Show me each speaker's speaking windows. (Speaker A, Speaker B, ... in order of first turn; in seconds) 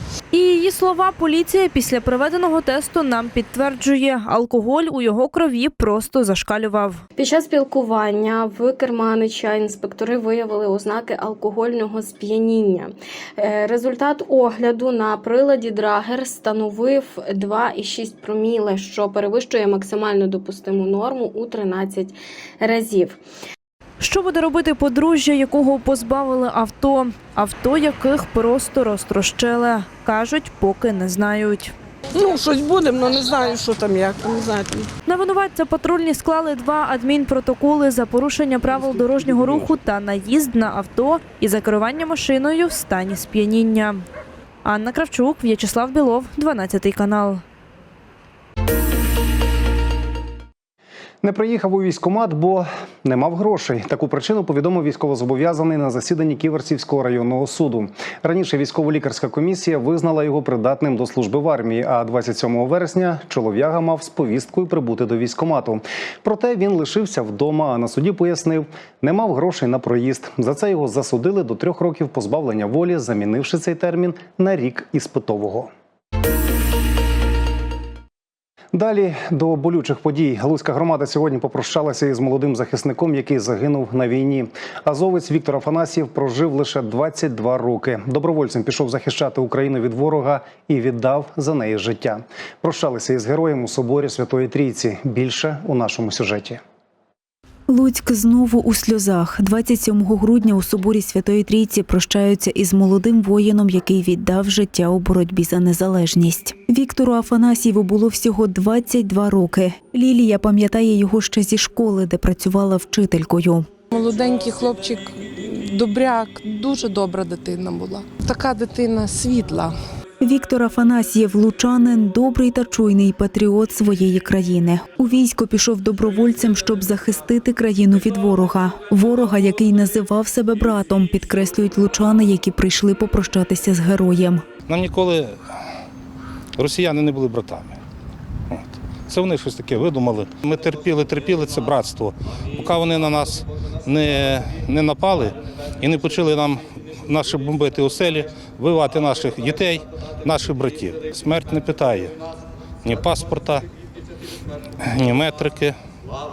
Speaker A: 0.3-7.0, 24.0-31.7, 35.1-44.0, 44.6-47.4
Speaker B: 7.2-23.2
Speaker C: 32.1-34.9
Speaker D: 51.2-75.7, 78.7-96.6
Speaker E: 97.7-113.7, 120.2-134.4
Speaker F: 113.9-119.8
Speaker G: 134.7-135.4, 136.6-137.8, 138.5-152.1, 152.8-153.6, 154.8-155.8